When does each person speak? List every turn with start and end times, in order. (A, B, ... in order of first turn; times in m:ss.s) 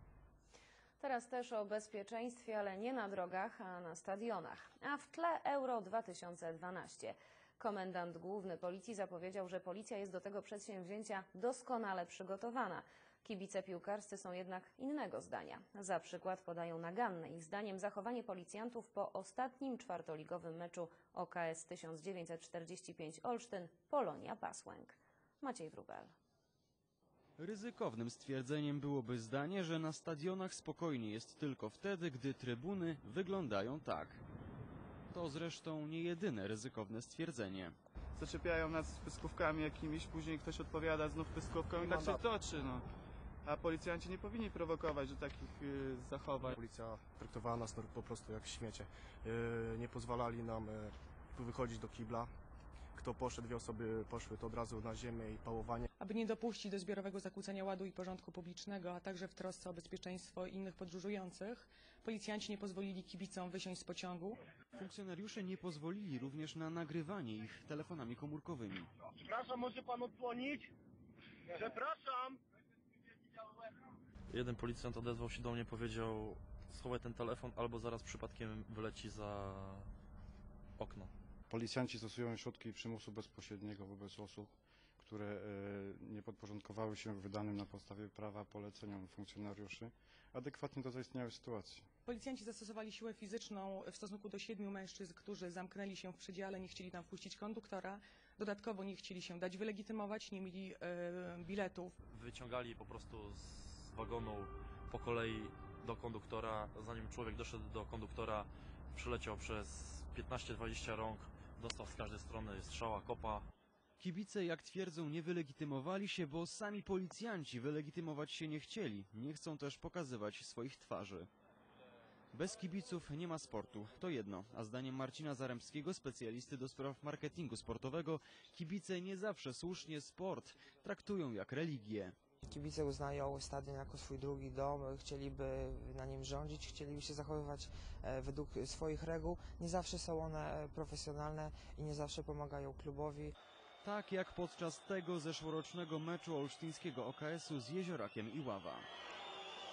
0:01.0-0:26.1 A
0:27.4-0:34.2 B
0:35.1-0:37.8 B
0:38.2-0:42.9 C
0:41.8-0:42.2 D
0:43.4-0:46.6 C
0:46.6-0:52.3 D
0:52.9-0:55.8 D
0:56.0-1:04.4 E
1:04.7-1:08.9 B
1:09.2-1:10.7 F
1:11.5-1:12.4 F
1:14.3-1:19.9 G
1:20.8-1:21.1 G
1:21.5-1:31.9 H
1:32.0-1:41.9 E
1:42.1-1:53.5 G
1:54.0-2:01.3 B
2:02.3-2:12.2 B
2:12.5-2:23.3 I
2:23.8-2:28.9 B